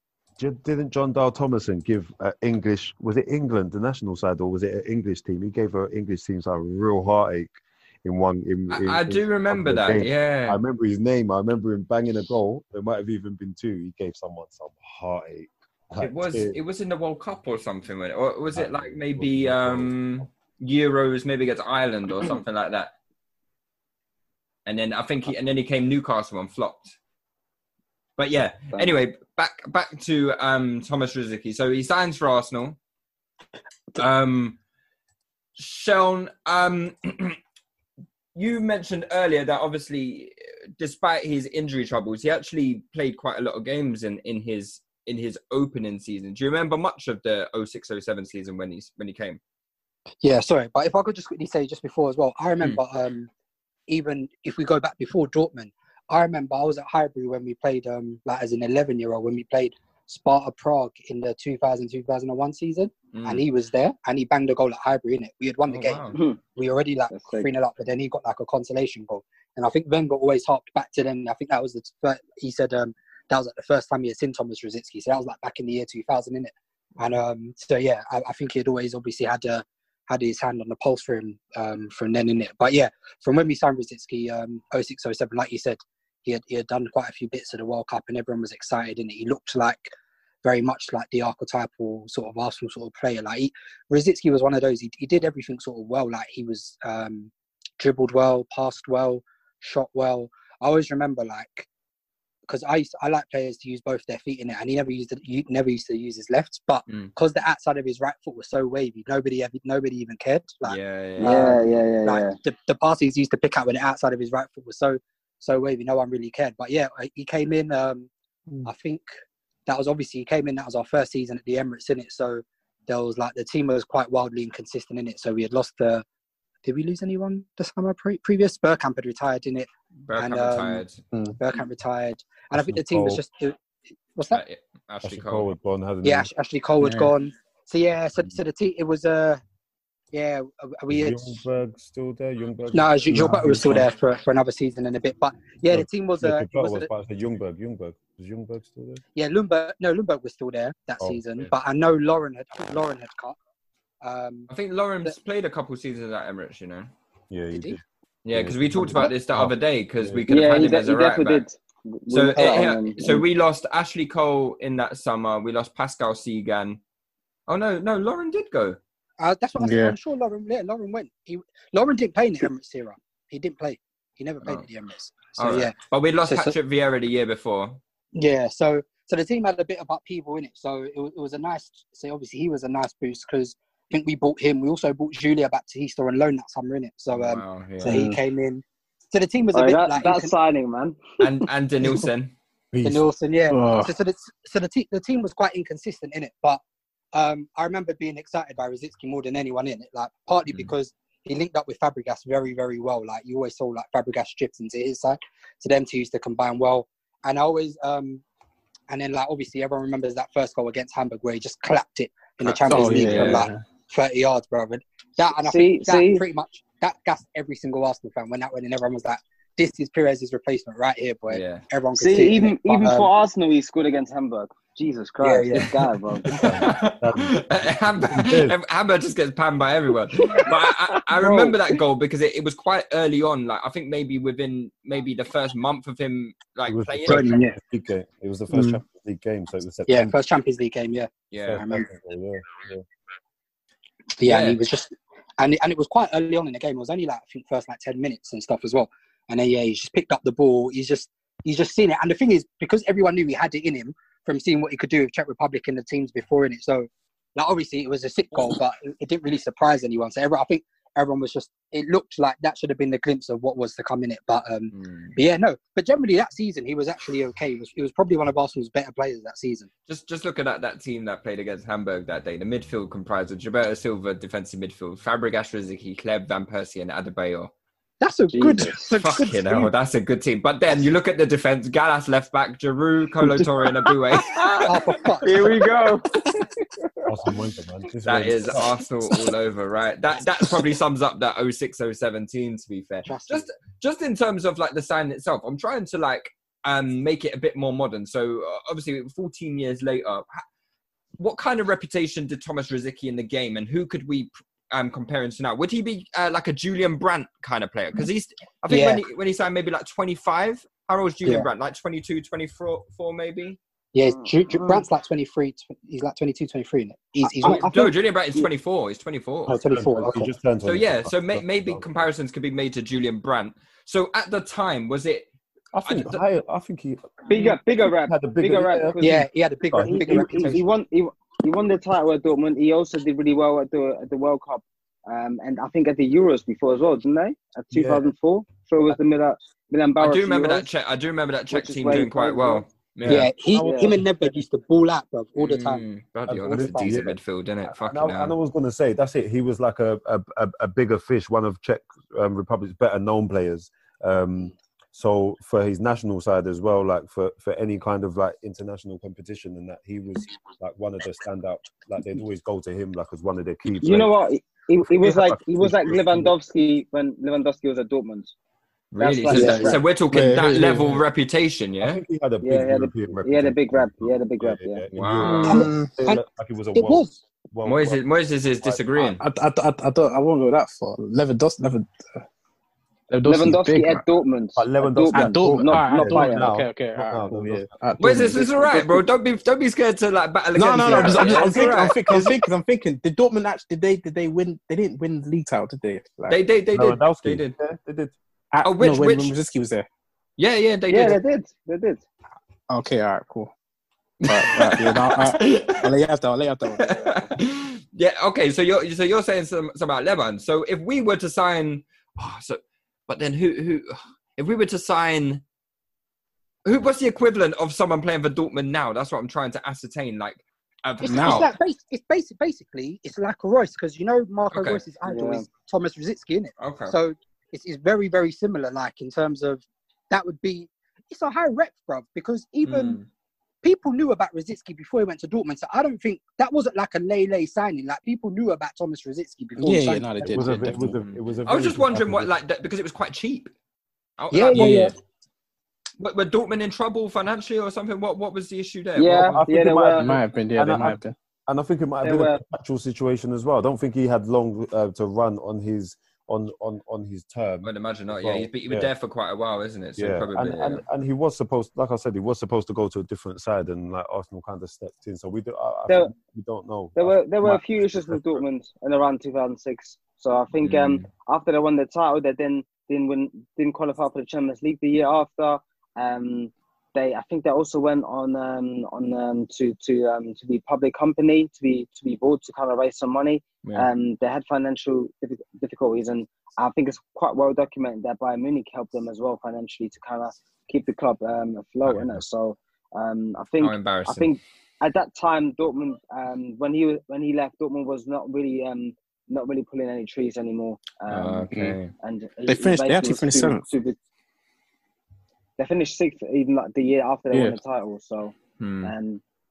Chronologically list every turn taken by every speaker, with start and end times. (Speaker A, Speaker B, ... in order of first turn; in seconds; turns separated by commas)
Speaker A: 0.4-16.6, Speaker B: 8.7-10.6, Speaker B: 16.0-22.9, Speaker A: 18.5-20.3, Speaker B: 24.6-26.9, Speaker B: 28.2-32.8, Speaker B: 34.0-34.6, Speaker B: 35.6-37.4, Speaker B: 38.3-49.4, Speaker C: 50.2-53.3, Speaker C: 53.9-89.9, Speaker B: 63.1-63.4, Speaker B: 65.7-66.2, Speaker D: 66.1-66.4, Speaker D: 67.1-67.5, Speaker C: 90.4-101.7, Speaker C: 102.5-118.1, Speaker B: 106.9-107.1, Speaker B: 110.6-111.4, Speaker D: 111.2-112.3, Speaker C: 118.6-119.1, Speaker C: 119.7-126.0, Speaker C: 126.6-130.8, Speaker B: 130.1-131.0, Speaker E: 131.1-131.4, Speaker C: 131.4-133.6, Speaker A: 132.5-133.2, Speaker C: 134.1-134.4, Speaker B: 134.3-135.5, Speaker A: 135.0-136.3, Speaker C: 136.0-139.4, Speaker E: 136.8-137.1, Speaker C: 140.1-141.3, Speaker A: 140.9-143.9, Speaker C: 142.7-146.9, Speaker E: 143.1-143.5, Speaker A: 145.7-149.0, Speaker C: 149.2-153.4, Speaker A: 151.0-151.5, Speaker C: 154.0-154.5, Speaker B: 154.5-156.9, Speaker A: 157.3-160.2, Speaker C: 157.5-157.8, Speaker B: 158.2-161.4, Speaker D: 160.3-163.2, Speaker B: 162.1-166.8, Speaker C: 162.4-162.8, Speaker B: 167.5-168.8, Speaker C: 169.2-175.7, Speaker E: 169.6-170.0, Speaker B: 175.4-177.8, Speaker C: 176.3-176.5, Speaker C: 178.1-190.3, Speaker B: 187.1-187.9, Speaker E: 187.8-188.2, Speaker D: 189.5-191.2, Speaker B: 191.2-192.3, Speaker A: 192.7-193.0, Speaker C: 192.8-196.6, Speaker E: 193.5-193.9, Speaker C: 197.1-208.2, Speaker C: 208.9-223.1, Speaker B: 212.4-213.4, Speaker E: 212.7-213.6, Speaker D: 215.4-216.2, Speaker B: 221.3-221.6, Speaker D: 222.0-226.3, Speaker C: 225.2-225.8, Speaker A: 225.5-228.6, Speaker B: 226.4-237.3, Speaker D: 231.2-231.6, Speaker A: 236.7-240.1, Speaker C: 237.1-237.6, Speaker C: 239.9-241.9, Speaker B: 241.3-241.6, Speaker A: 241.4-242.8, Speaker C: 244.2-269.7, Speaker B: 244.2-244.6, Speaker B: 264.7-265.2, Speaker B: 269.9-277.5, Speaker C: 278.0-279.7, Speaker D: 278.3-278.9, Speaker B: 278.9-284.5, Speaker D: 284.2-284.6, Speaker C: 284.6-285.6, Speaker D: 285.2-286.6, Speaker A: 287.1-288.8, Speaker B: 288.1-300.4, Speaker C: 293.1-293.5, Speaker B: 301.2-313.6, Speaker C: 308.7-309.0, Speaker C: 313.9-317.9, Speaker B: 317.4-319.6, Speaker C: 319.5-320.3, Speaker A: 319.5-322.1, Speaker B: 320.6-325.3, Speaker A: 325.7-327.3, Speaker B: 325.9-326.2, Speaker D: 327.3-329.2, Speaker A: 327.9-330.6, Speaker C: 329.0-330.6, Speaker D: 329.8-340.7, Speaker A: 337.7-338.1, Speaker B: 340.0-343.3, Speaker D: 341.5-342.6, Speaker C: 343.1-345.9, Speaker D: 343.4-343.9, Speaker B: 345.4-348.3, Speaker A: 346.3-364.1, Speaker C: 346.4-346.9, Speaker D: 363.8-368.3, Speaker A: 364.8-366.3, Speaker B: 368.9-372.0, Speaker D: 369.0-369.8, Speaker C: 369.3-369.8, Speaker E: 370.1-371.0, Speaker A: 371.8-378.0, Speaker D: 372.4-374.8, Speaker B: 374.9-375.9, Speaker C: 375.5-376.2, Speaker E: 375.6-375.9, Speaker C: 376.7-377.1, Speaker B: 377.6-379.2, Speaker A: 378.6-379.1, Speaker E: 379.2-382.2, Speaker E: 383.1-384.0, Speaker D: 383.2-386.5, Speaker A: 384.6-387.8, Speaker E: 385.1-389.0, Speaker B: 388.0-392.4, Speaker E: 390.5-396.4, Speaker B: 396.3-397.5, Speaker A: 396.7-398.1, Speaker E: 398.5-399.9, Speaker B: 398.6-399.4, Speaker B: 400.4-401.2, Speaker D: 400.9-402.0, Speaker E: 402.7-403.5, Speaker B: 404.2-405.9, Speaker E: 404.2-407.0, Speaker B: 406.8-415.4, Speaker B: 416.6-421.5, Speaker E: 421.0-421.5, Speaker C: 421.1-433.0, Speaker B: 424.5-424.8, Speaker D: 425.1-425.4, Speaker B: 426.6-426.9, Speaker B: 432.6-433.1, Speaker C: 433.6-440.6, Speaker E: 439.6-440.9, Speaker A: 440.2-442.3, Speaker B: 440.8-443.5, Speaker B: 444.2-444.9, Speaker C: 444.3-444.9, Speaker E: 444.5-444.9, Speaker B: 446.0-449.4, Speaker D: 448.9-450.1, Speaker A: 449.3-458.9, Speaker E: 450.0-451.1, Speaker D: 452.0-452.4, Speaker B: 457.6-460.8, Speaker A: 460.0-468.4, Speaker D: 466.9-504.0, Speaker B: 470.6-471.1, Speaker A: 491.9-492.2, Speaker B: 493.6-494.3, Speaker B: 501.1-501.9, Speaker E: 501.5-501.8, Speaker E: 502.5-503.6, Speaker D: 505.6-509.2, Speaker B: 508.6-508.9